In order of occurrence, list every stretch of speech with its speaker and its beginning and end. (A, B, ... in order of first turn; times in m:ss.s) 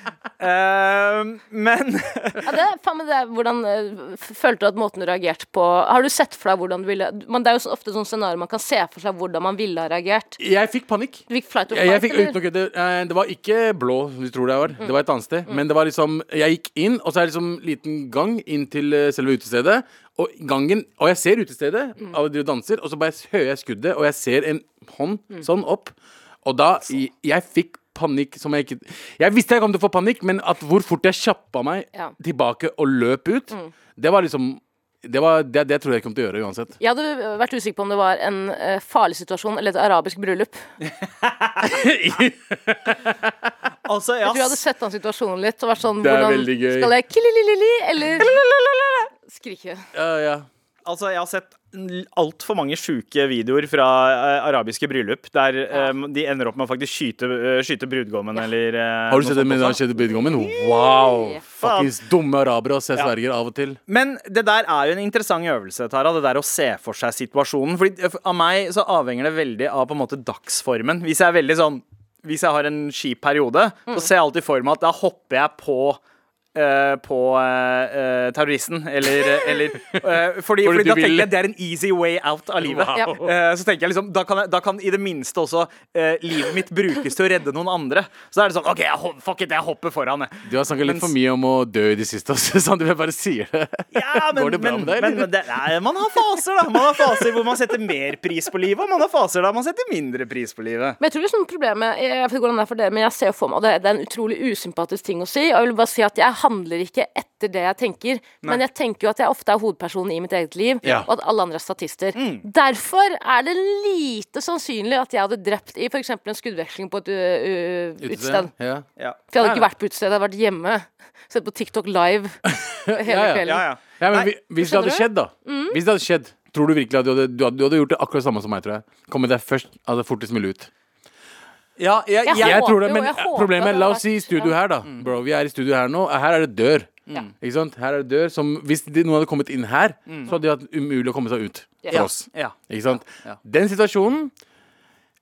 0:00.4-0:02.5 A
0:02.4-0:10.4 B
0:10.4-0:36.8 C
0:11.3-0:12.4 B
0:36.8-0:40.6 B
0:41.6-0:43.3 C
0:43.9-0:44.6 A
0:44.2-0:48.3 B
0:46.0-0:46.9 C
0:49.3-0:49.8 B
0:49.9-0:50.5 C
0:50.8-0:59.8 A
0:59.1-1:03.8 C
1:01.4-1:01.9 A
1:03.9-1:16.0 A
1:16.6-1:31.1 A
1:19.3-1:21.4 C
1:22.6-1:23.3 C
1:30.4-1:35.3 C
1:33.9-1:41.0 A
1:41.0-1:58.5 B
1:52.2-1:52.4 A
1:58.0-1:58.9 C
1:59.3-2:03.6 B
1:59.4-1:59.7 C
2:02.5-2:10.7 C
2:03.4-2:04.3 A
2:04.6-2:05.8 B
2:11.8-2:12.7 A
2:12.2-2:14.5 B
2:12.4-2:24.3 C
2:20.1-2:20.3 A
2:21.9-2:22.6 A